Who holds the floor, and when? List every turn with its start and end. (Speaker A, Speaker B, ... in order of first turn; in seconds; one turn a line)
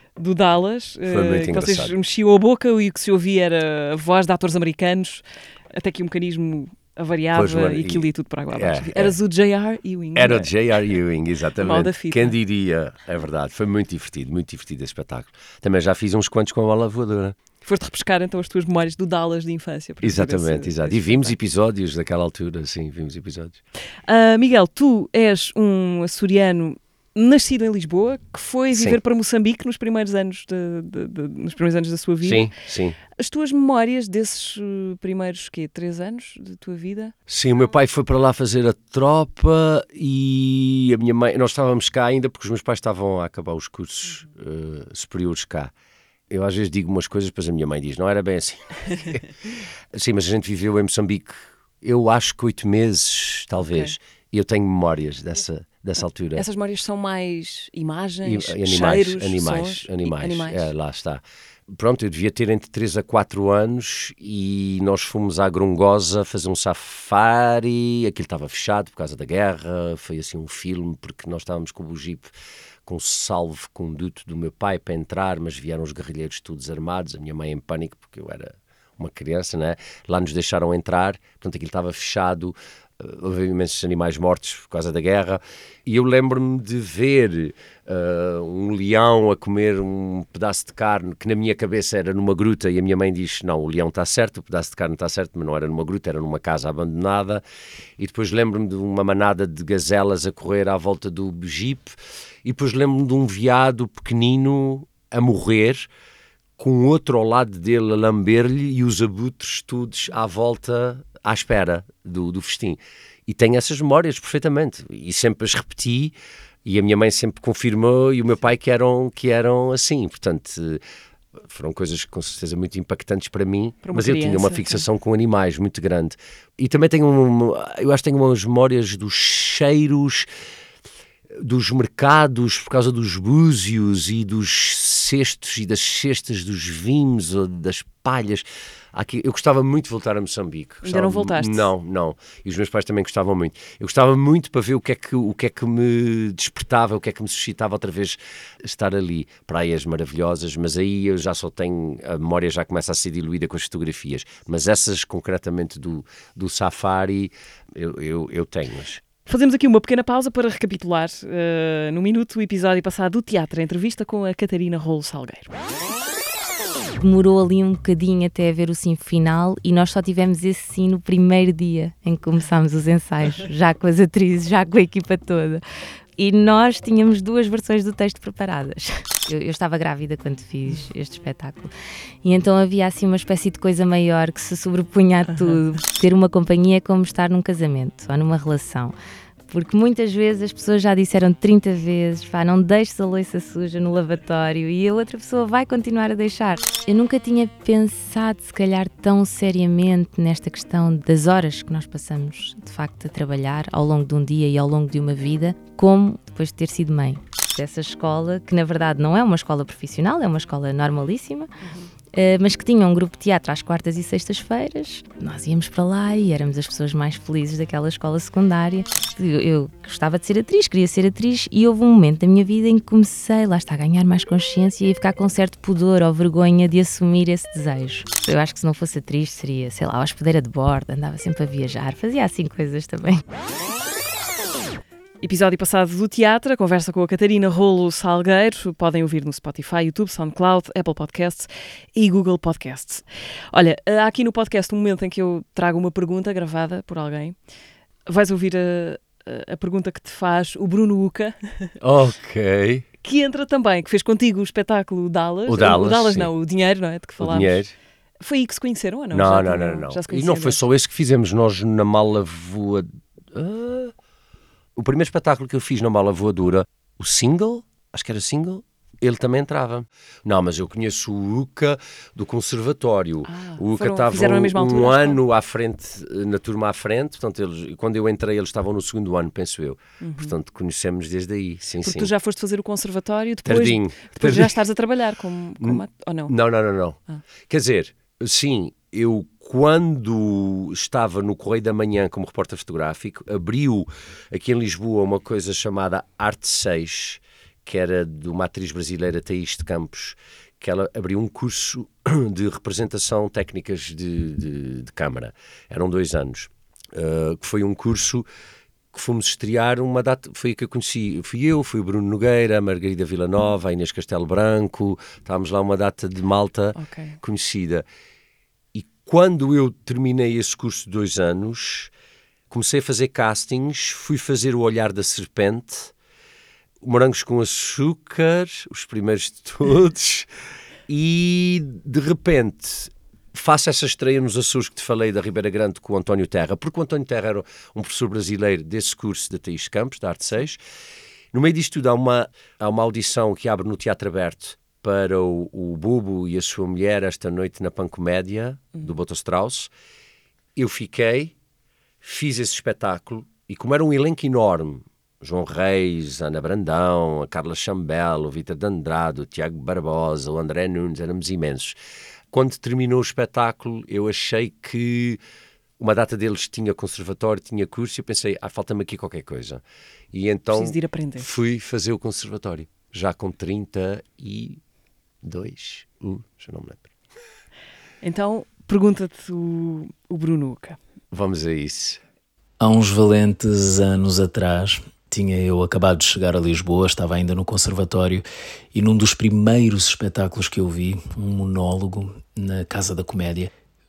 Speaker A: 0.2-10.5
Speaker B: 1.1-1.9
Speaker B: 7.3-9.2
Speaker B: 10.2-17.4
Speaker A: 11.6-12.3
Speaker A: 17.6-21.4
Speaker B: 20.0-23.6
Speaker A: 24.1-32.5
Speaker B: 28.7-29.0
Speaker B: 32.2-33.0
Speaker A: 33.2-37.1
Speaker B: 37.3-45.7
Speaker B: 46.3-49.3
Speaker B: 49.9-56.5
Speaker A: 53.6-53.9
Speaker A: 56.4-60.7
Speaker B: 58.2-72.3
Speaker B: 72.9-97.4
Speaker B: 98.0-105.9
Speaker B: 106.6-120.8
Speaker B: 121.4-130.3
Speaker A: 123.8-124.8
Speaker B: 131.4-159.0
Speaker A: 140.8-141.7
Speaker A: 159.3-165.5
Speaker C: 167.0-175.6
Speaker C: 176.2-181.7
Speaker C: 182.2-188.9
Speaker C: 189.5-211.5
Speaker A: 211.6-211.9
Speaker C: 212.1-233.2
Speaker A: 235.2-247.4
Speaker A: 248.1-251.7
Speaker B: 251.8-252.9
Speaker A: 253.0-257.6
Speaker B: 255.5-256.3
Speaker B: 257.2-257.8
Speaker A: 258.2-260.6
Speaker B: 259.1-263.9
Speaker B: 264.8-282.1
Speaker A: 273.3-275.2
Speaker A: 280.0-280.3
Speaker A: 281.8-286.4
Speaker B: 283.4-284.6
Speaker B: 285.6-308.3
Speaker B: 308.9-317.9
Speaker A: 316.8-317.2
Speaker B: 318.7-321.9
Speaker B: 322.5-325.9
Speaker B: 326.8-330.3
Speaker B: 330.9-340.6
Speaker B: 341.3-349.7
Speaker B: 350.6-351.3
Speaker B: 352.0-361.8
Speaker B: 362.3-365.2
Speaker B: 365.8-374.6
Speaker A: 370.5-371.3
Speaker B: 375.2-376.9
Speaker A: 378.0-380.8
Speaker B: 381.1-382.0
Speaker D: 382.6-393.5